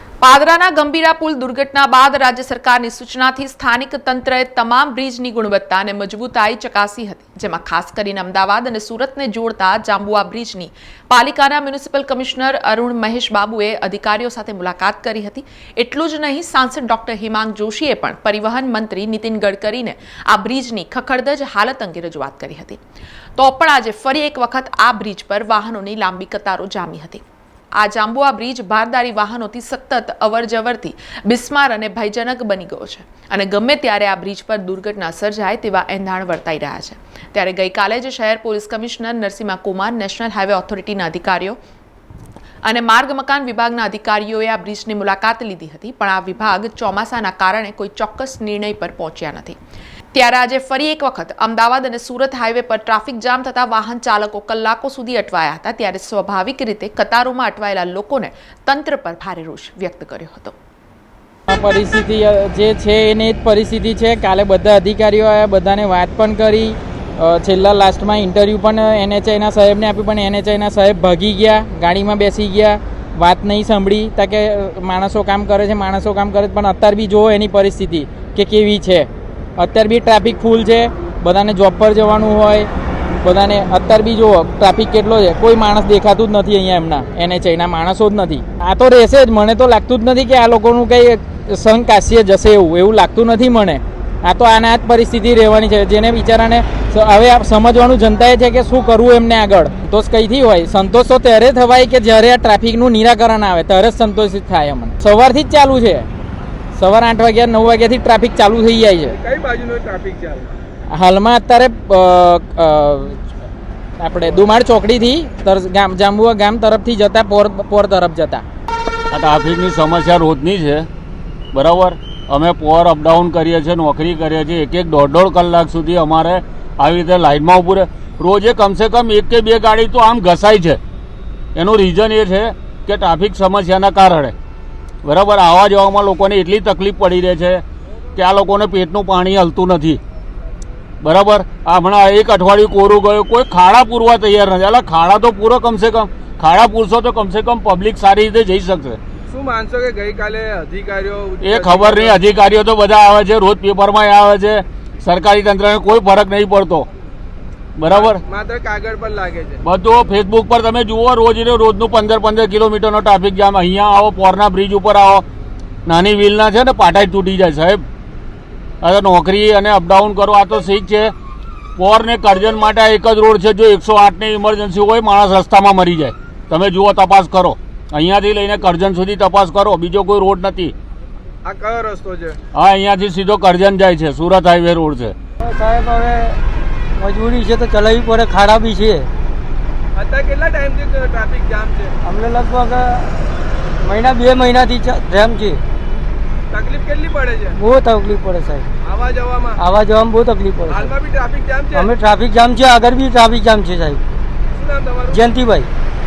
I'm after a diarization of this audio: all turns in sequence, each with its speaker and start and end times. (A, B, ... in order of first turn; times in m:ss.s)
0:00.2-0:22.8 A
0:23.4-0:27.2 A
0:27.8-0:41.6 A
0:42.6-0:49.6 A
0:50.1-1:00.6 A
1:01.5-1:22.7 B
1:23.2-1:46.1 B
1:46.7-1:49.2 B
1:49.1-1:50.6 C
1:50.9-1:53.3 B
1:54.0-1:58.4 B
1:59.1-2:00.9 D
2:01.5-2:10.8 D
2:11.5-2:14.3 D
2:15.0-2:17.6 D
2:18.2-2:20.0 D
2:21.0-2:29.0 D
2:29.3-2:32.2 C
2:31.4-2:36.9 D
2:37.8-2:38.2 D
2:37.9-2:39.6 C
2:39.6-2:45.2 D
2:45.8-2:47.8 D
2:48.8-2:51.1 D
2:51.8-3:00.7 D
3:01.4-3:02.4 C
3:02.5-3:05.1 D
3:05.4-3:06.4 E
3:07.0-3:09.1 E
3:10.0-3:11.9 C
3:12.0-3:13.2 E
3:13.8-3:15.6 E
3:16.5-3:17.6 C
3:17.6-3:18.7 E
3:18.8-3:19.6 C
3:19.6-3:20.9 E
3:20.7-3:21.9 C
3:21.7-3:24.0 E
3:24.5-3:25.2 C
3:25.1-3:25.7 E